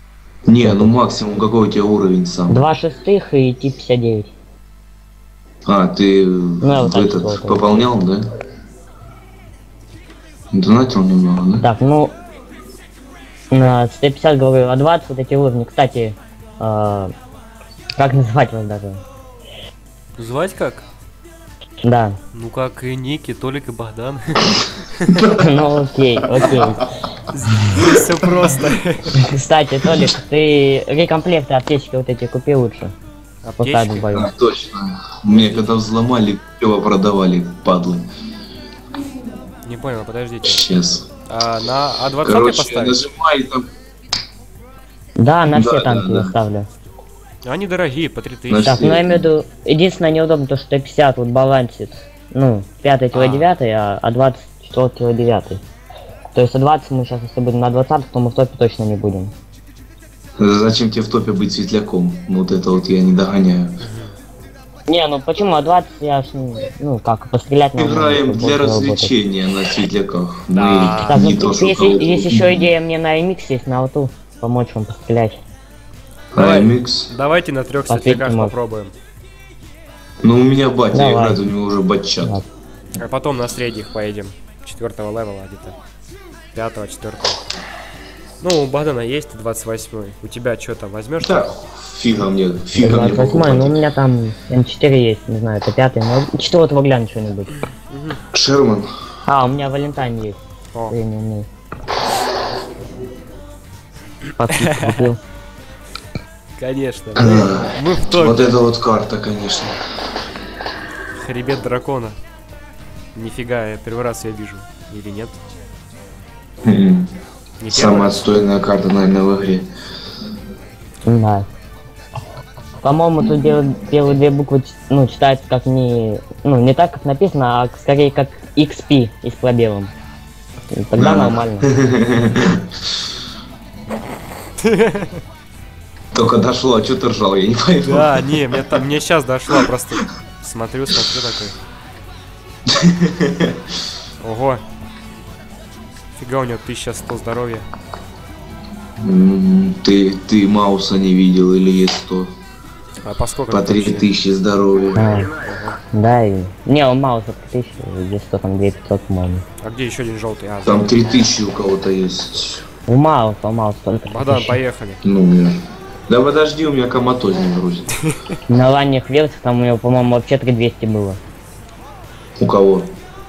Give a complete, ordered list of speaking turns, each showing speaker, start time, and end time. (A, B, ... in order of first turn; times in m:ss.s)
0:00.5-0:02.6 A
0:00.6-0:00.9 B
0:02.5-0:04.3 B
0:05.7-0:08.2 A
0:06.6-0:07.9 B
0:10.5-0:11.7 A
0:11.6-0:12.1 B
0:13.5-0:17.1 B
0:18.0-0:19.0 B
0:20.2-0:20.8 C
0:21.8-0:22.2 B
0:22.3-0:25.3 C
0:25.3-0:26.8 B
0:27.3-0:29.2 C
0:29.2-0:32.9 B
0:33.4-0:34.1 C
0:33.6-0:34.3 B
0:34.1-0:38.1 A
0:35.3-0:35.8 C
0:39.6-0:40.7 C
0:40.4-0:41.1 A
0:41.3-0:43.0 C
0:42.2-0:43.6 A
0:45.2-0:46.7 B
0:45.5-0:46.4 A
0:47.4-0:48.8 C
0:48.5-0:49.3 A
0:48.6-0:55.6 B
0:53.1-0:53.5 C
0:56.3-0:59.3 B
1:00.4-1:03.8 A
1:03.8-1:04.2 C
1:04.9-1:09.1 B
1:07.8-1:12.7 A
1:10.5-1:11.3 C
1:11.1-1:15.4 B
1:16.3-1:18.9 C
1:16.3-1:17.1 A
1:17.9-1:18.5 B
1:20.2-1:22.4 A
1:20.9-1:21.4 B
1:23.0-1:25.8 C
1:26.5-1:27.4 C
1:28.4-1:31.6 C
1:31.2-1:33.8 A
1:32.8-1:37.5 B
1:37.9-1:38.2 C
1:38.3-1:38.9 A
1:39.3-1:40.4 B
1:40.9-1:41.5 B
1:44.4-1:45.2 B
1:44.5-1:45.1 C
1:46.6-1:48.5 C
1:47.2-1:49.8 A
1:51.1-1:52.2 C
1:53.2-1:55.4 C
1:56.6-1:57.1 A
1:57.6-1:58.4 C
1:57.7-1:59.7 A
2:01.0-2:01.5 B
2:02.8-2:09.9 B
2:03.2-2:03.6 A
2:10.7-2:11.7 B
2:11.0-2:12.6 A
2:14.6-2:15.2 C
2:16.1-2:18.8 A
2:17.8-2:21.6 C
2:22.7-2:23.6 A
2:24.2-2:24.6 C
2:26.2-2:27.7 C
2:29.0-2:32.3 A
2:33.0-2:34.1 C
2:33.5-2:35.1 A
2:35.0-2:35.3 B
2:35.1-2:35.8 C
2:35.9-2:39.4 B
2:39.6-2:41.0 C
2:40.6-2:42.6 A
2:42.9-2:44.6 B
2:44.1-2:45.0 C
2:45.0-2:45.6 A
2:46.1-2:47.9 A
2:48.5-2:51.2 B
2:52.4-2:52.9 A